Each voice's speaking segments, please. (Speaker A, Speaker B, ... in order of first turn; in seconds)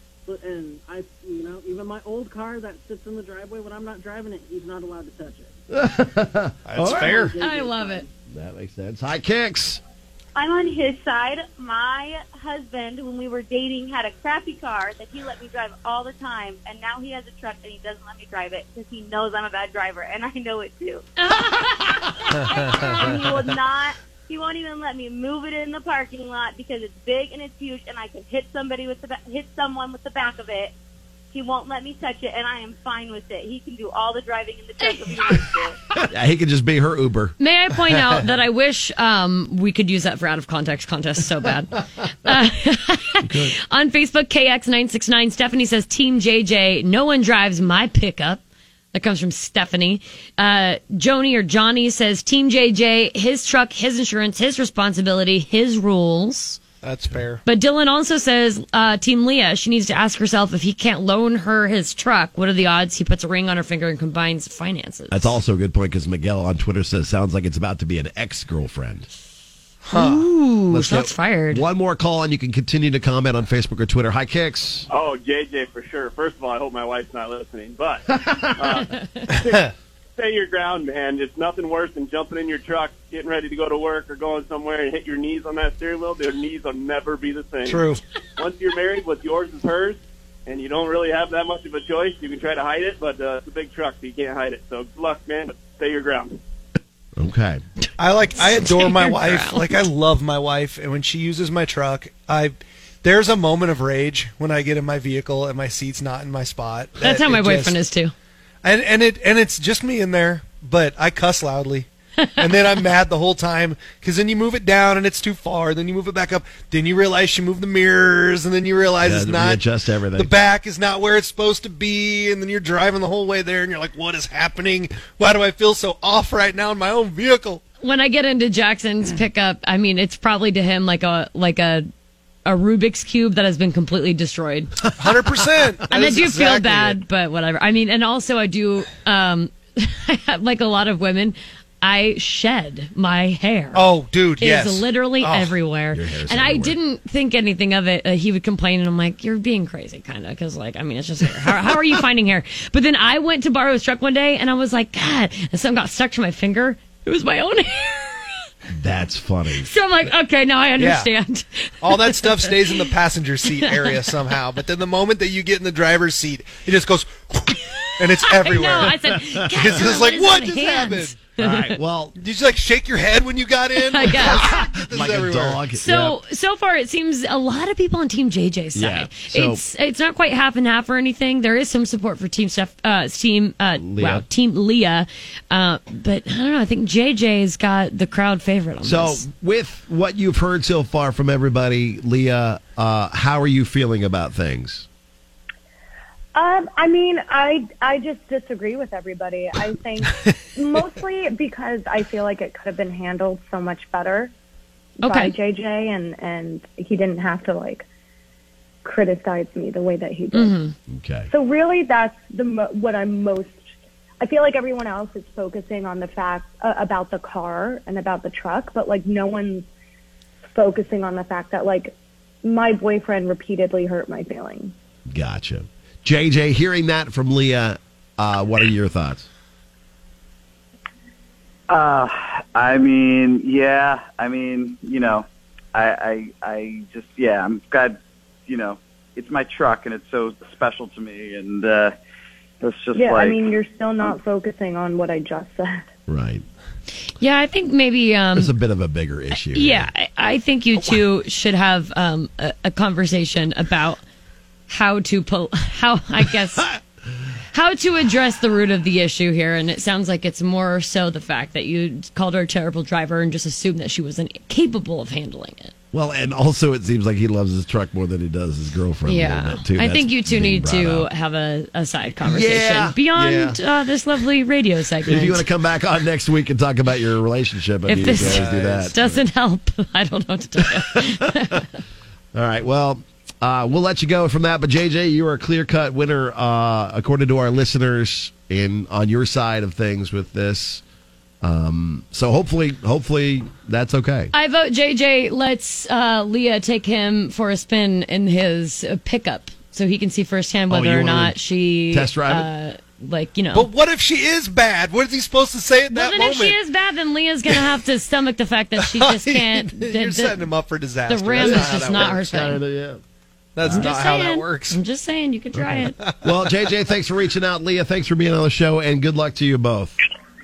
Speaker A: 0.3-5.5, 6.8-8.1
Speaker B: 5.7-7.3, 8.3-9.8, 36.0-37.4, 43.2-43.5, 65.1-69.1, 70.7-74.9, 97.2-97.6, 119.0-120.3, 145.9-146.8, 158.7-159.7, 171.4-172.2, 174.1-176.2, 178.8-179.6, 183.8-184.2, 188.8-194.9, 210.9-211.3, 225.1-229.3, 246.1-246.4, 248.4-249.9, 265.9-271.1, 272.2-273.0, 275.1-279.2, 280.9-281.6, 282.4-290.8, 291.4-294.3, 300.7-301.4, 301.9-302.5, 311.4-313.0, 315.6-319.9
Speaker C: 6.7-7.4, 56.8-57.4, 69.8-70.2, 87.7-88.0, 98.0-107.8, 108.6-119.6, 120.1-127.6, 135.0-137.0, 143.7-145.6, 160.8-161.1, 161.8-171.2, 172.2-175.6, 273.2-273.6, 278.0-279.0, 303.5-306.6, 308.8-312.3, 313.6-314.8, 316.0-316.3
Speaker D: 7.3-8.1, 21.2-23.2, 37.4-48.4, 48.9-56.6, 57.5-65.4, 69.9-71.6, 78.9-79.2, 98.4-99.6, 107.0-108.1, 127.8-131.9, 132.4-134.9, 135.9-143.8, 144.4-158.4, 159.6-162.9, 168.2-171.8, 173.8-174.6, 175.7-189.2, 205.0-205.3, 210.3-210.8, 247.2-248.5, 249.5-254.0, 254.7-256.7, 257.5-265.7, 269.1-275.5, 277.9-281.7, 294.3-303.7, 305.9-310.5, 311.1-312.6, 313.7-316.0
Speaker E: 10.3-30.7, 31.3-35.8
Speaker F: 74.9-96.4
Speaker G: 196.3-204.3, 205.0-207.8, 208.8-210.6, 211.3-213.6, 214.2-219.7, 220.5-221.9, 222.4-224.7, 242.9-245.8
Speaker H: 231.7-241.9, 242.6-243.5